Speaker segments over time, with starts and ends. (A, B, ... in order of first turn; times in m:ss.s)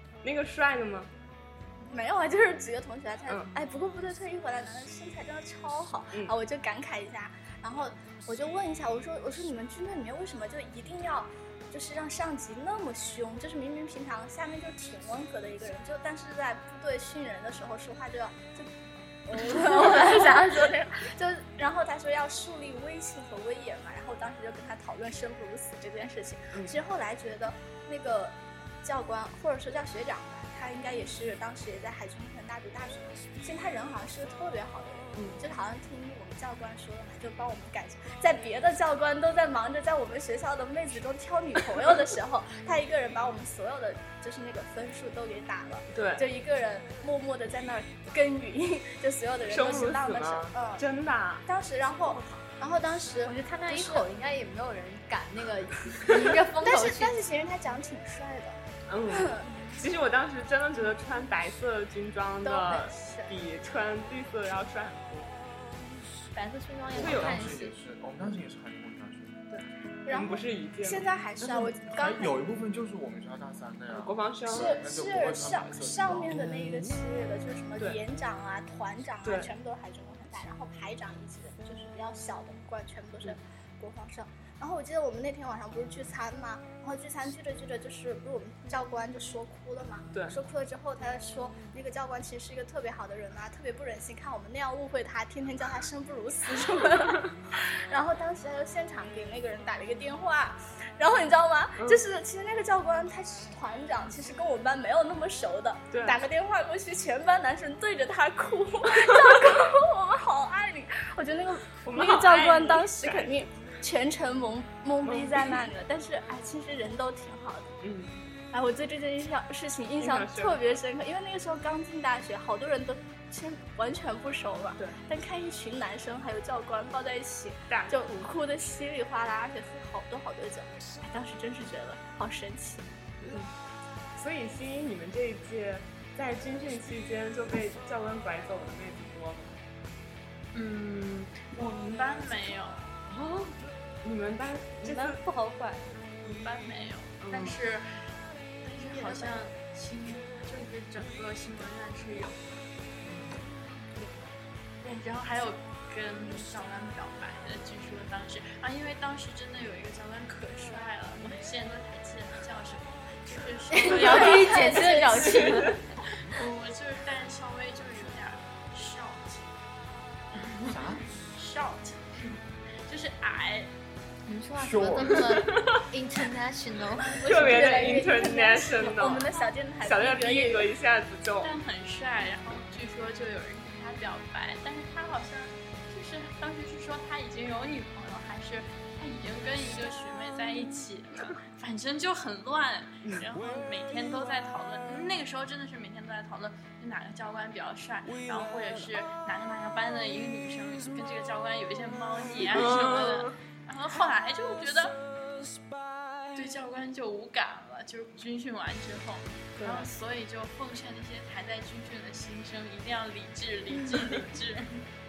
0:00.2-0:01.1 A
0:01.9-0:18.7 B
0:03.3-0:03.5 A
0:19.3-0:50.8 B
0:35.2-0:35.4 A
0:45.9-0:46.3 A
0:49.5-0:51.4 A
0:51.5-0:54.1 B
0:53.2-0:57.2 C
0:56.6-0:59.5 B
0:58.9-1:05.3 A
1:02.4-1:03.4 B
1:06.3-1:07.8 C
1:06.9-1:09.4 D
1:07.0-1:07.5 A
1:09.5-1:11.0 A
1:10.1-1:12.4 B
1:11.4-1:16.4 D
1:13.9-1:14.8 A
1:14.5-1:57.7 B
1:19.2-1:19.5 A
1:45.9-1:46.2 A
1:51.8-1:53.3 A
1:55.0-1:55.6 A
1:57.8-1:58.2 A
1:58.5-2:12.9 B
2:00.0-2:00.6 A
2:07.7-2:08.3 A
2:14.2-2:19.6 A
2:20.5-2:23.0 E
2:23.1-2:25.2 A
2:24.8-2:26.0 C
2:26.2-2:27.9 E
2:27.2-2:27.6 A
2:28.6-2:32.5 E
2:28.9-2:29.5 B
2:34.8-2:44.9 E
2:43.7-2:45.8 C
2:44.0-2:45.6 B
2:46.3-2:49.5 E
2:50.3-2:50.8 E
2:50.6-2:51.1 D
2:51.3-2:53.7 E
2:54.3-2:57.9 C
2:54.6-2:55.4 D
2:57.0-3:00.7 B
2:57.2-2:59.3 A
2:59.8-3:01.5 A
3:01.4-3:25.0 E
3:22.5-3:23.4 A
3:26.4-3:34.8 E
3:29.6-3:29.9 A